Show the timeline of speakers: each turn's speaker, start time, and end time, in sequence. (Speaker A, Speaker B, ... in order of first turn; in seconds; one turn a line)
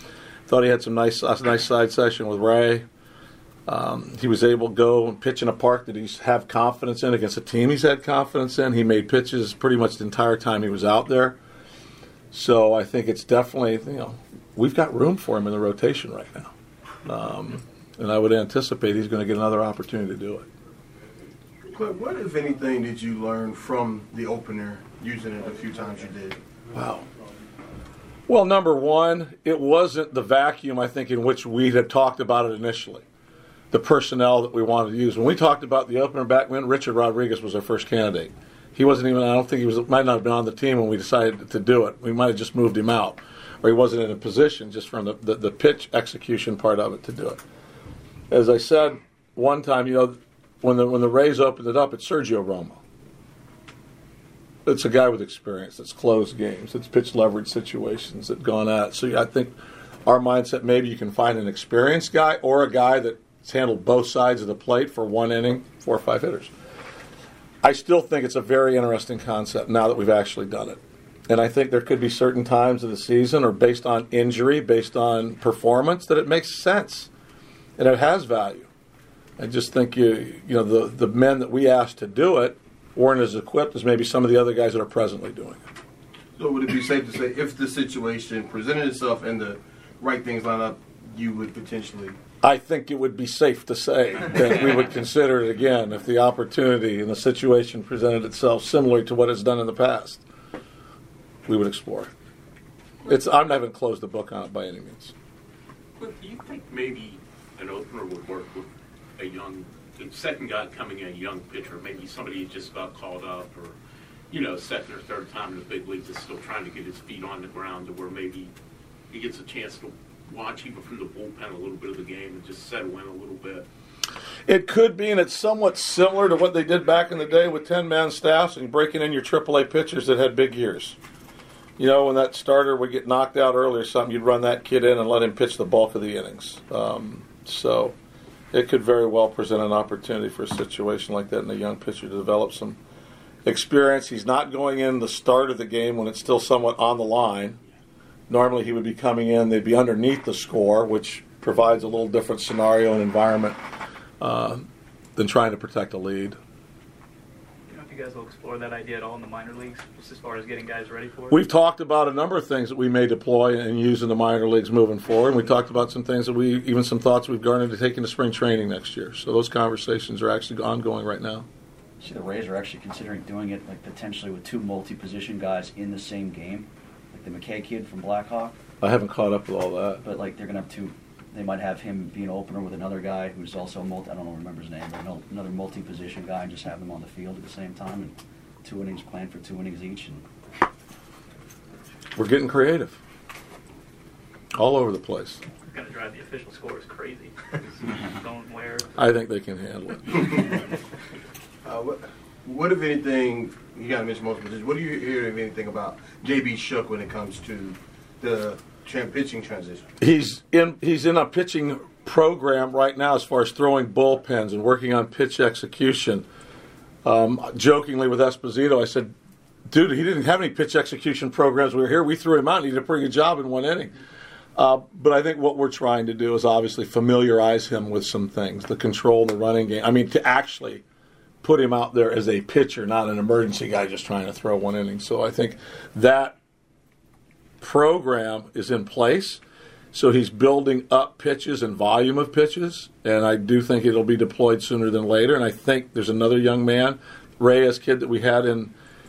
Speaker A: 0.5-2.9
Speaker A: 3.7-11.4
Speaker A: 12.3-16.5
Speaker A: 17.1-20.5
Speaker B: 21.7-26.4
Speaker A: 26.7-27.1
Speaker A: 28.3-33.0
Speaker A: 33.7-47.4
Speaker A: 48.3-52.8
Speaker A: 54.7-59.5
Speaker A: 60.1-66.5
Speaker A: 67.6-77.1
Speaker A: 77.8-78.7
Speaker A: 79.4-85.6
Speaker B: 86.4-92.2
Speaker A: 92.4-100.2
Speaker A: 101.5-102.1
Speaker A: 103.0-105.1
Speaker C: 106.0-113.8
Speaker C: 114.3-118.5
Speaker C: 119.1-123.7
Speaker A: 124.5-131.0
Speaker A: 131.8-137.9
Speaker A: 138.5-142.8
Speaker A: 143.4-147.6
Speaker A: 148.3-153.6
Speaker A: 154.2-156.4
Speaker D: 157.7-161.4
Speaker A: 161.3-171.5
Speaker E: 172.0-178.6
Speaker A: 178.8-180.0
Speaker E: 180.0-190.2
Speaker A: 192.2-193.0
Speaker A: 194.5-195.4
Speaker D: 195.7-198.9
Speaker A: 199.0-200.3
Speaker B: 201.6-209.8
Speaker A: 210.0-216.2
Speaker A: 217.1-219.1
Speaker A: 219.7-223.9
Speaker A: 224.6-230.8
Speaker A: 231.4-236.4
Speaker A: 237.6-239.4
Speaker A: 239.9-248.7